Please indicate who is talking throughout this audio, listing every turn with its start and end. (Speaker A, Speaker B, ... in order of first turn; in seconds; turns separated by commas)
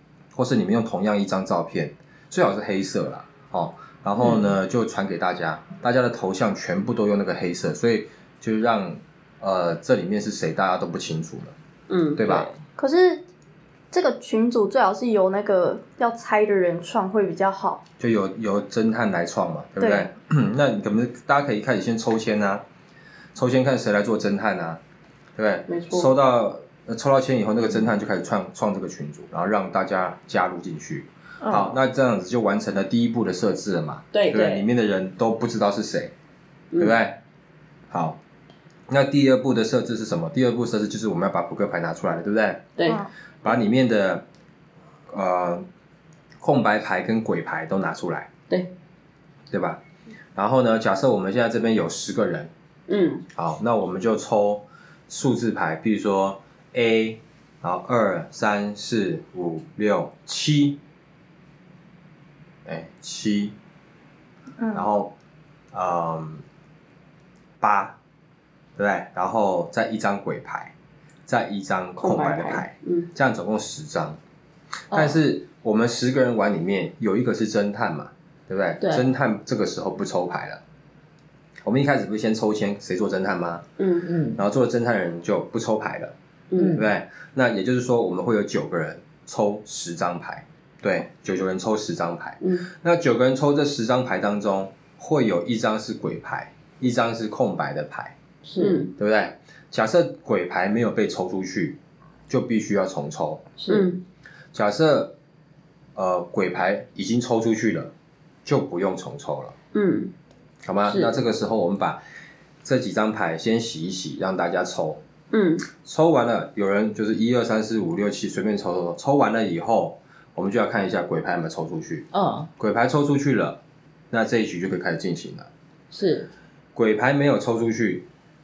Speaker A: 0.3-11.6, Speaker B: 11.9-12.2, Speaker A: 12.2-12.5, Speaker C: 12.2-12.6, Speaker D: 12.8-13.2, Speaker D: 13.9-17.8, Speaker A: 18.0-22.6, Speaker D: 19.8-20.1, Speaker A: 23.4-24.8, Speaker A: 25.4-36.1, Speaker B: 25.7-26.1, Speaker C: 34.1-34.4, Speaker B: 34.1-34.6, Speaker B: 36.7-37.0, Speaker A: 36.8-37.2, Speaker A: 37.9-38.2, Speaker A: 38.9-42.7, Speaker B: 42.8-43.0, Speaker A: 43.4-44.2, Speaker A: 45.1-45.6, Speaker A: 46.4-48.3, Speaker A: 49.5-49.8, Speaker A: 50.4-52.5, Speaker B: 52.9-53.3, Speaker A: 53.4-60.8, Speaker A: 62.6-63.5, Speaker A: 64.7-65.1, Speaker A: 65.7-66.5, Speaker A: 67.6-68.0, Speaker A: 68.8-70.7, Speaker A: 71.3-74.2, Speaker B: 72.0-73.1, Speaker A: 74.9-80.6, Speaker C: 74.9-75.2, Speaker C: 78.8-79.1, Speaker A: 81.6-83.7, Speaker B: 83.8-84.1, Speaker C: 84.0-84.4, Speaker A: 84.4-86.2, Speaker B: 86.5-86.8, Speaker C: 86.5-86.9, Speaker A: 86.7-98.2, Speaker C: 98.5-98.9, Speaker B: 98.6-98.9, Speaker A: 99.0-101.8, Speaker A: 102.3-103.5, Speaker C: 103.6-103.9, Speaker B: 103.7-104.0, Speaker A: 104.5-105.1, Speaker A: 106.0-107.9, Speaker A: 108.5-109.5, Speaker B: 109.7-110.1, Speaker A: 110.7-112.0, Speaker C: 110.9-111.2, Speaker A: 112.6-115.0, Speaker B: 115.3-115.7, Speaker A: 115.8-122.1, Speaker C: 122.1-122.5, Speaker A: 122.6-123.6, Speaker A: 124.1-125.5, Speaker C: 125.9-126.3, Speaker A: 126.8-128.1